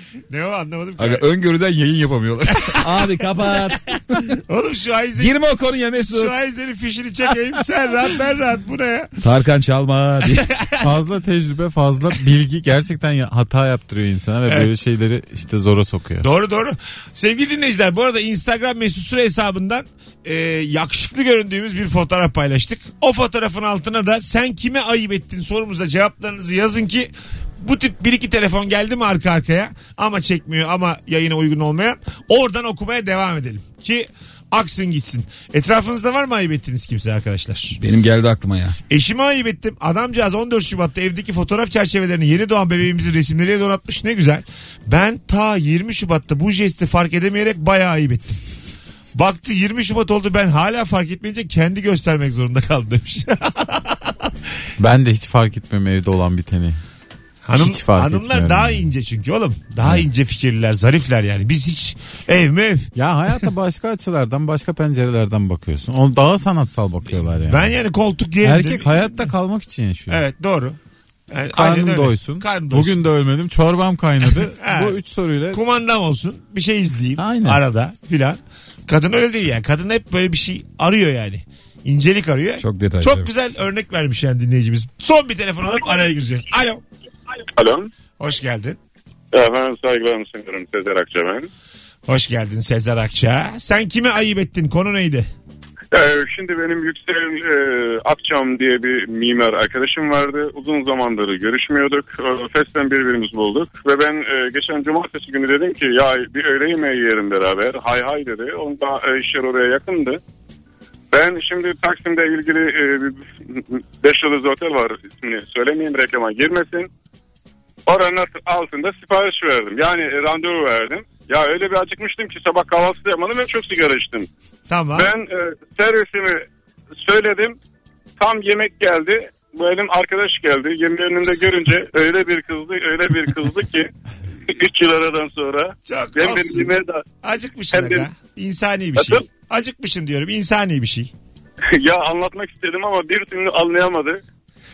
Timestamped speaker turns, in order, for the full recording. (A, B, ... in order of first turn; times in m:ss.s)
0:00.3-0:01.2 A
0:01.0-0:04.4 B
0:02.5-0:03.0 A
0:04.4-0:05.4 A
0:05.2-0:06.3 B
0:06.0-0:09.2 A
0:09.2-0:10.5 B
0:10.2-0:10.8 A
0:10.8-0:16.2 C
0:16.2-0:37.8 A
0:37.8-0:38.8 B
0:38.9-0:48.4 A
0:49.1-0:54.3 A
0:54.8-0:56.8 C
0:57.4-1:02.9 A
0:57.6-0:58.9 C
1:03.0-1:07.8 C
1:07.5-1:09.3 A
1:08.4-1:10.2 C
1:10.1-1:10.8 A
1:11.3-1:13.0 A
1:11.5-1:15.6 C
1:14.5-1:15.0 A
1:15.5-1:26.8 A
1:17.2-1:17.6 C
1:22.6-1:23.3 B
1:27.6-1:27.9 D
1:28.2-1:28.8 A
1:29.3-1:31.5 D
1:32.1-1:35.3 A
1:35.9-1:50.2 D
1:51.1-1:56.9 D
1:57.9-2:04.3 D
2:04.7-2:05.1 A
2:05.0-2:06.4 D
2:07.0-2:07.6 D
2:08.2-2:13.9 D
2:14.5-2:17.0 D
2:15.9-2:21.1 A
2:17.7-2:18.1 D
2:19.0-2:19.2 D
2:21.7-2:24.2 D